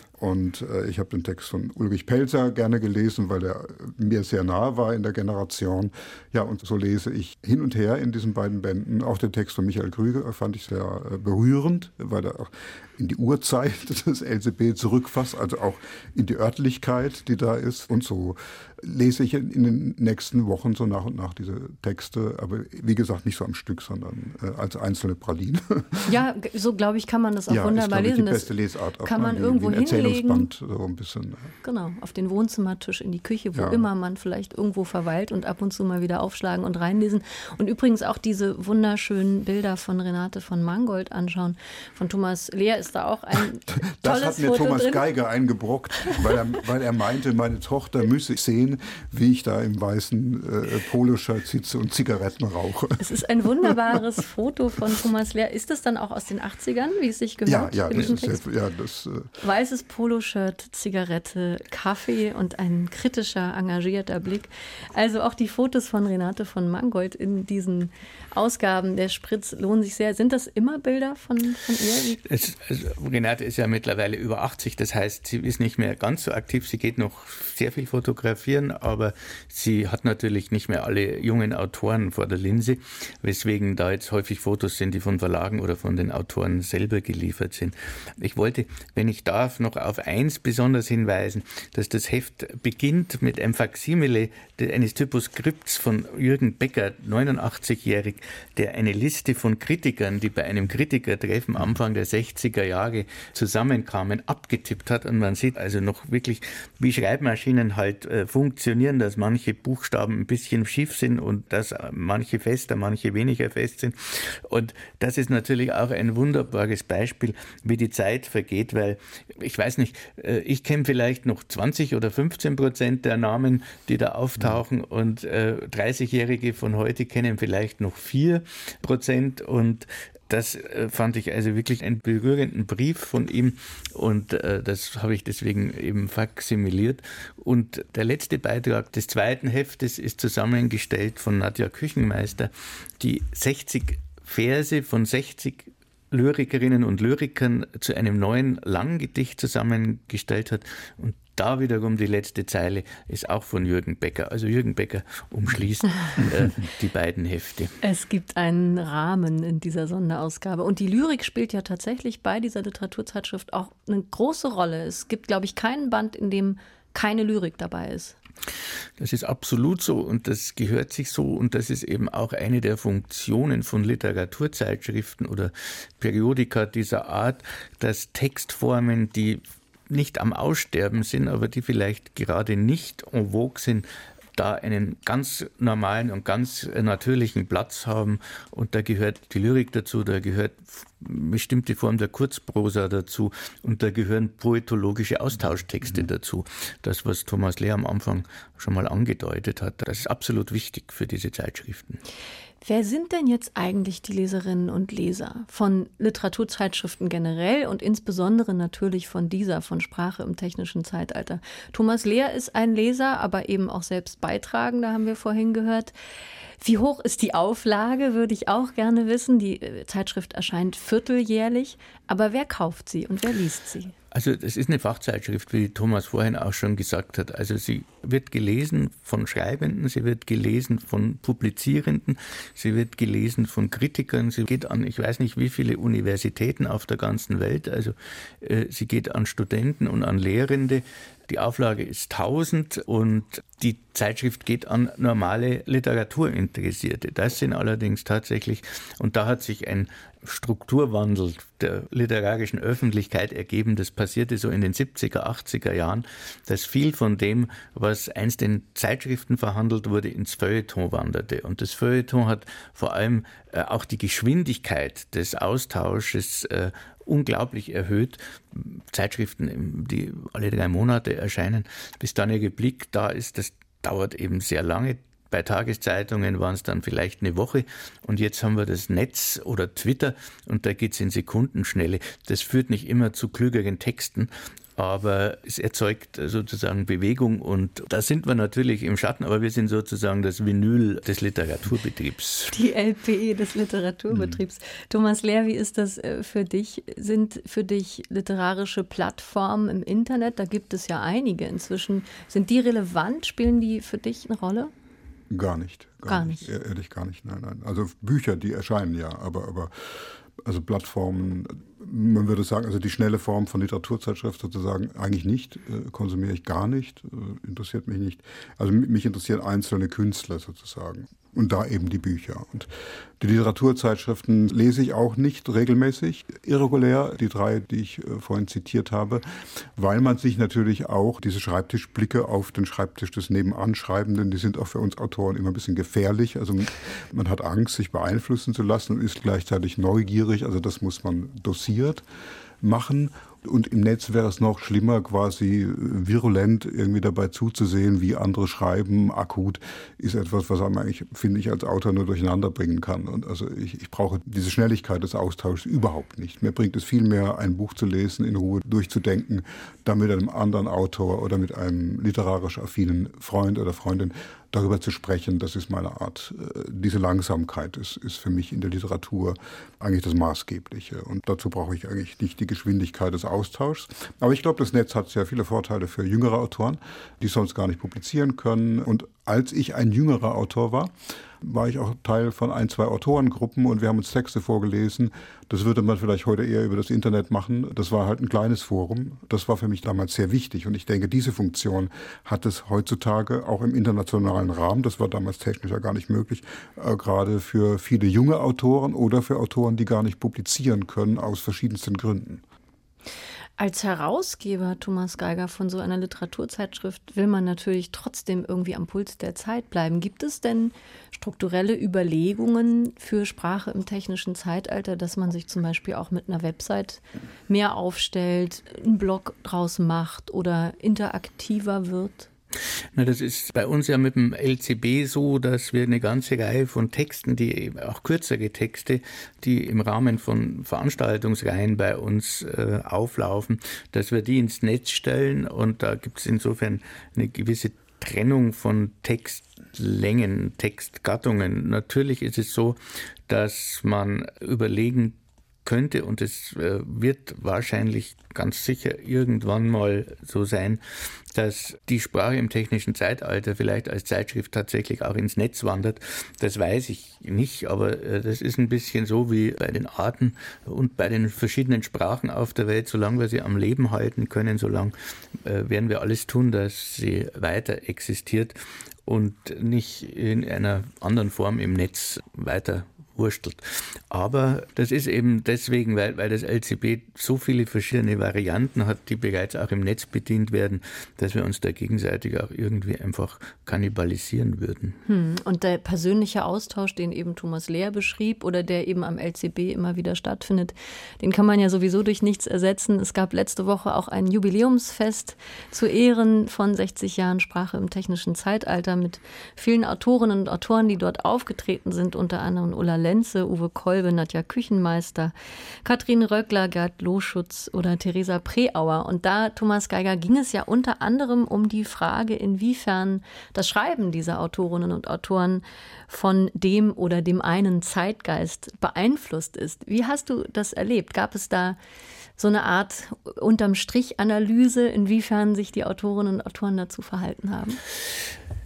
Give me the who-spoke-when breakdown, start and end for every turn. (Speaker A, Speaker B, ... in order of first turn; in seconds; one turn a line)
Speaker A: 0.2-26.1
Speaker B: 26.1-28.5
Speaker A: 27.5-31.5
Speaker B: 29.0-30.5
Speaker B: 31.6-45.0
Speaker A: 33.5-33.9
Speaker A: 43.8-53.0
Speaker B: 53.0-58.5
Speaker A: 57.5-59.4
Speaker B: 59.4-72.2
Speaker C: 72.2-157.8
Speaker B: 157.8-168.2
Speaker C: 169.0-202.0
Speaker B: 202.6-215.9
Speaker B: 216.6-223.9
Speaker C: 224.1-292.5
Speaker B: 292.5-304.7
Speaker A: 305.3-322.7
Speaker B: 306.1-306.5
Speaker A: 323.2-342.0
Speaker A: 342.6-402.4
Speaker B: 403.6-422.3
Speaker C: 422.9-485.0
Speaker B: 485.1-521.8
Speaker B: 522.4-527.8